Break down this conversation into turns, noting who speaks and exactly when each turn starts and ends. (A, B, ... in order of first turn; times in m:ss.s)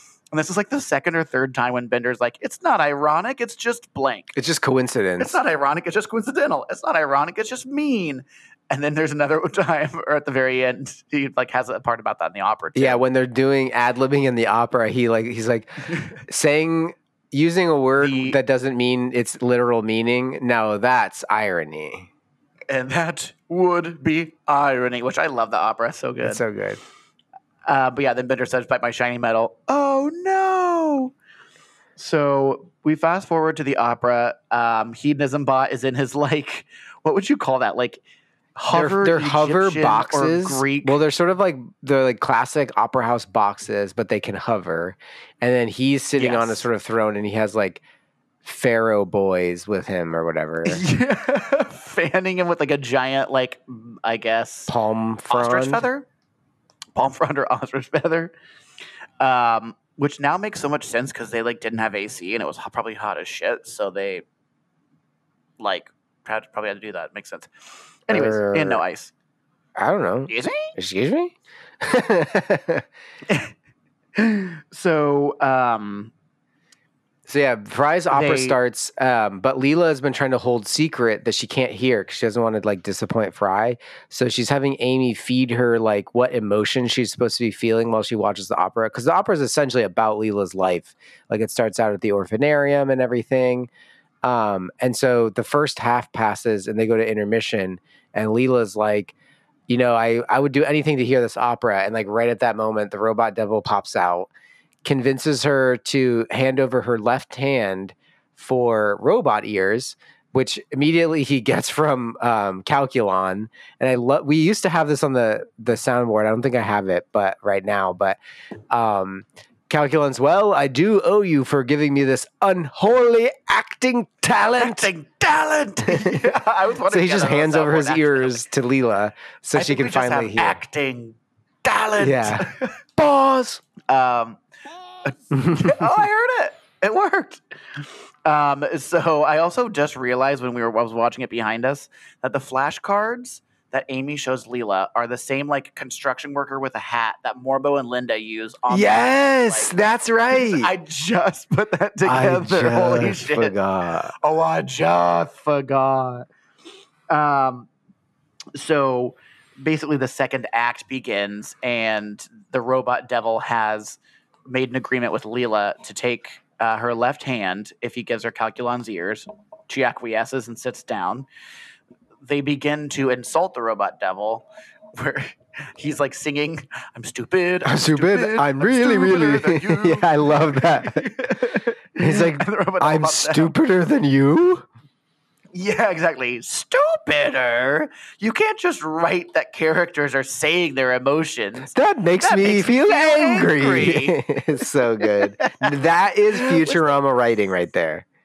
0:00.3-0:04.4 A
0:04.4-0:05.4 B
0:05.2-0:13.0 A
0:12.8-0:22.1 B
0:18.0-0:18.4 A
0:22.7-0:26.4 A
0:26.2-0:26.8 B
0:27.7-0:31.1 A
0:32.0-0:38.0 A
0:38.6-0:41.0 A
0:38.7-0:47.8 B
0:46.2-0:46.6 A
0:48.4-0:50.8 B
0:50.6-0:54.7 A
0:54.7-0:55.8 B
0:55.3-0:56.1 A
0:57.0-0:58.3 A
0:59.2-1:04.2 A
1:05.6-1:07.5 A
1:08.1-1:09.1 A
1:08.1-1:08.8 B
1:09.8-1:12.9 B
1:10.3-1:10.7 A
1:14.2-1:16.1 A
1:17.3-1:33.7 B
1:18.1-1:18.6 A
1:34.2-1:39.2 B
1:39.7-1:44.3 B
1:44.8-1:58.2 B
1:58.7-2:04.9 B
2:04.6-2:08.4 A
2:05.9-2:06.3 B
2:06.9-2:10.6 B
2:09.5-2:12.8 A
2:12.0-2:13.6 B
2:13.9-2:14.4 A
2:15.0-2:29.8 A
2:15.3-2:16.0 B
2:28.7-2:30.7 B
2:30.3-2:33.6 A
2:32.0-2:34.1 B
2:34.2-2:36.3 A
2:37.1-2:37.7 A
2:38.6-2:51.3 A
2:52.2-3:03.5 A
2:57.6-3:04.6 B
3:05.5-3:14.2 A
3:11.7-3:18.0 B
3:15.0-3:15.8 A
3:16.3-3:17.0 A